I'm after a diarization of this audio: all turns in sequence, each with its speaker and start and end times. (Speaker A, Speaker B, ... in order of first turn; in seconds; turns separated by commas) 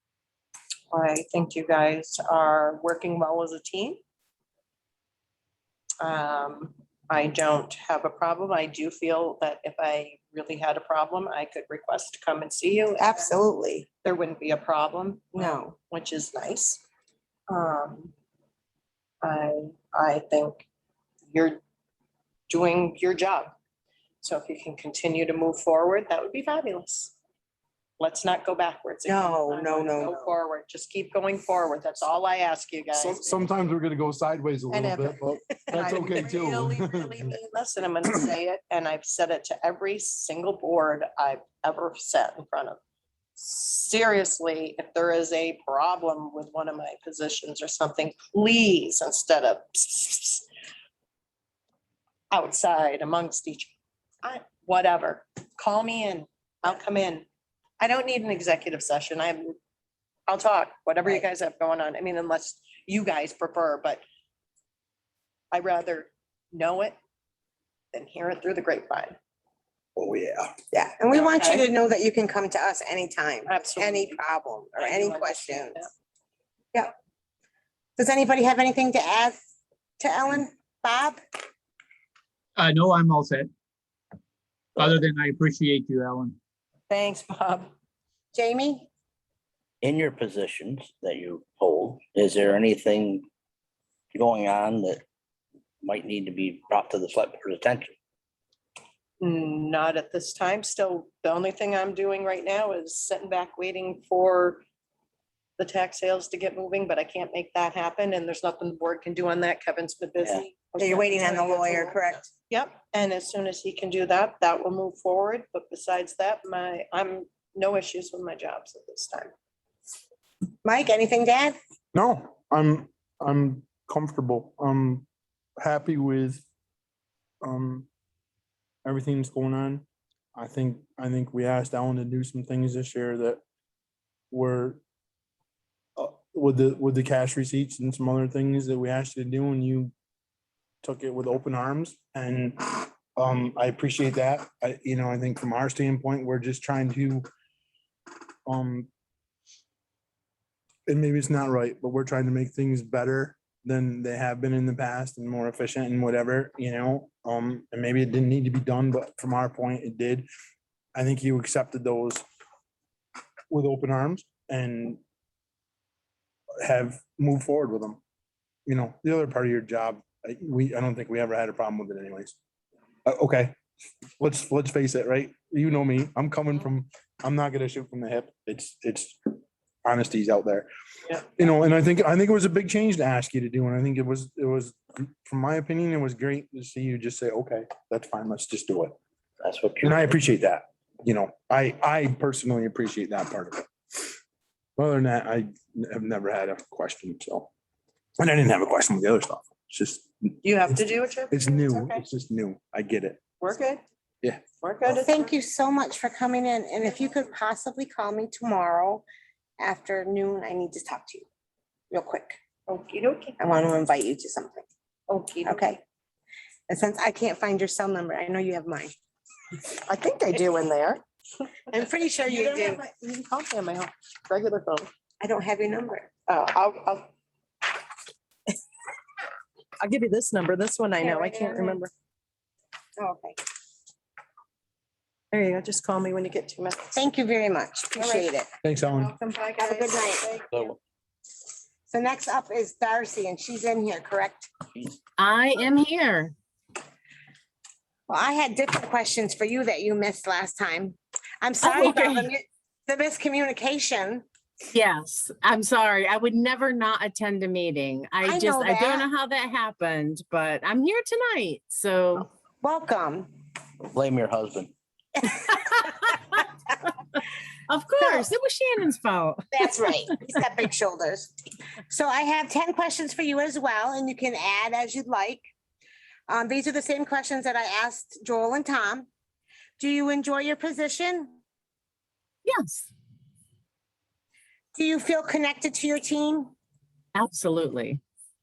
Speaker A: 0.9-4.0, Speaker A: 6.0-13.3, Speaker B: 13.0-13.9, Speaker A: 14.0-16.8, Speaker B: 15.3-15.7, Speaker A: 17.5-18.1, Speaker A: 19.2-20.6, Speaker A: 21.3-21.6, Speaker A: 22.5-23.5, Speaker A: 24.2-27.1, Speaker A: 28.0-33.5, Speaker B: 29.1-30.3, Speaker C: 32.9-37.3, Speaker A: 34.7-42.8, Speaker A: 43.4-50.5, Speaker A: 52.3-57.2, Speaker A: 57.8-59.5, Speaker A: 60.3-64.0, Speaker A: 65.5-67.0, Speaker A: 67.9-69.2, Speaker C: 70.0-70.5, Speaker B: 70.7-75.8, Speaker A: 71.1-71.7, Speaker A: 73.5-74.2, Speaker A: 74.8-75.9, Speaker B: 78.0-79.4, Speaker B: 80.0-81.2, Speaker D: 82.6-83.5, Speaker D: 84.8-86.4, Speaker A: 86.9-87.7, Speaker B: 88.3-88.9, Speaker E: 89.8-93.3, Speaker E: 94.1-95.0, Speaker E: 95.8-97.9, Speaker A: 99.2-104.6, Speaker A: 105.6-119.3, Speaker B: 110.8-112.3, Speaker B: 120.6-121.6, Speaker C: 121.9-125.1, Speaker C: 125.6-126.4, Speaker C: 127.4-127.9, Speaker C: 128.8-133.4, Speaker C: 134.3-134.8, Speaker C: 136.0-139.9, Speaker C: 140.8-147.2, Speaker C: 148.4-148.9, Speaker C: 150.9-160.3, Speaker C: 160.9-162.2, Speaker C: 163.5-165.0, Speaker C: 166.6-168.0, Speaker C: 168.7-172.3, Speaker C: 173.1-173.6, Speaker C: 174.2-179.2, Speaker C: 179.8-180.7, Speaker C: 181.4-189.0, Speaker E: 189.4-190.2, Speaker C: 189.8-194.1, Speaker C: 194.8-197.5, Speaker C: 198.2-200.7, Speaker A: 200.4-202.0, Speaker C: 201.3-203.2, Speaker A: 203.4-203.8, Speaker A: 204.6-205.3, Speaker B: 204.9-209.0, Speaker B: 209.6-211.2, Speaker B: 211.9-212.4, Speaker A: 212.7-213.4, Speaker B: 213.4-214.7, Speaker A: 215.1-215.7, Speaker B: 215.4-215.8, Speaker B: 216.7-218.9, Speaker A: 219.8-221.0, Speaker B: 221.7-222.8, Speaker A: 222.2-224.9, Speaker B: 225.2-226.1, Speaker A: 226.3-227.1, Speaker A: 229.8-231.9, Speaker B: 231.0-231.8, Speaker B: 233.0-233.4, Speaker A: 235.3-237.0, Speaker B: 236.9-238.5, Speaker A: 237.9-238.3, Speaker C: 238.6-239.1, Speaker A: 238.8-240.7, Speaker B: 239.6-240.3, Speaker B: 241.9-244.5, Speaker F: 245.2-246.3, Speaker B: 248.1-254.2, Speaker F: 251.6-252.3, Speaker F: 254.7-262.3, Speaker B: 258.2-259.1, Speaker B: 262.6-263.3, Speaker E: 263.9-264.7, Speaker B: 265.3-265.5, Speaker F: 265.4-266.3, Speaker F: 267.7-269.7, Speaker B: 268.0-268.3, Speaker B: 269.5-271.3, Speaker B: 271.9-275.4, Speaker B: 276.3-279.1, Speaker B: 279.8-281.4, Speaker F: 282.4-282.9, Speaker B: 284.7-286.5, Speaker F: 287.1-288.0